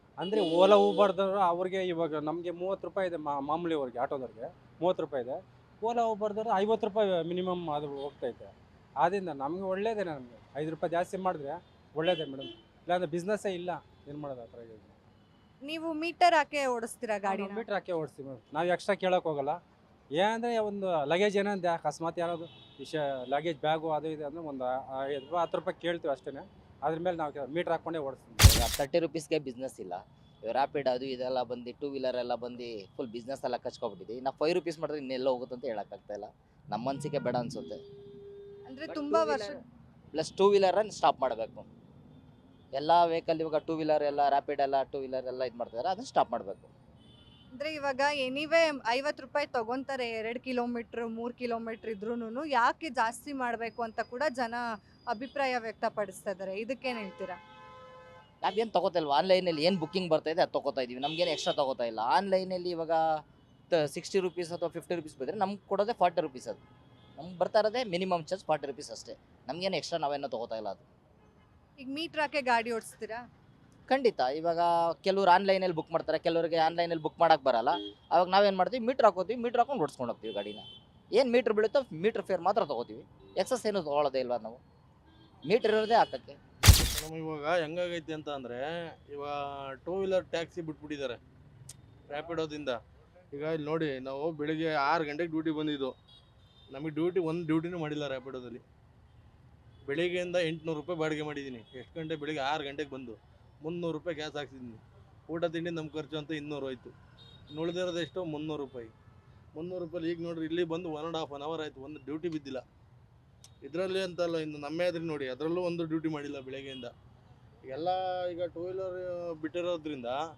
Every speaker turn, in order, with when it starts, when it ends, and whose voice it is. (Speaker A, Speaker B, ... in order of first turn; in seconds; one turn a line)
Speaker A: 0.2-14.9
Speaker B: 15.6-17.7
Speaker A: 17.2-19.6
Speaker A: 20.1-28.5
Speaker C: 28.5-37.8
Speaker B: 38.7-39.5
Speaker C: 40.1-41.7
Speaker C: 42.8-46.7
Speaker B: 47.5-57.4
Speaker C: 58.4-66.6
Speaker C: 67.2-70.8
Speaker B: 71.8-73.2
Speaker C: 73.9-80.7
Speaker C: 81.2-84.6
Speaker C: 85.5-86.4
Speaker D: 87.0-91.2
Speaker D: 92.1-92.8
Speaker D: 93.3-95.9
Speaker D: 96.7-98.6
Speaker D: 99.9-106.9
Speaker D: 107.5-108.9
Speaker D: 109.6-112.6
Speaker D: 113.6-116.9
Speaker D: 117.6-120.2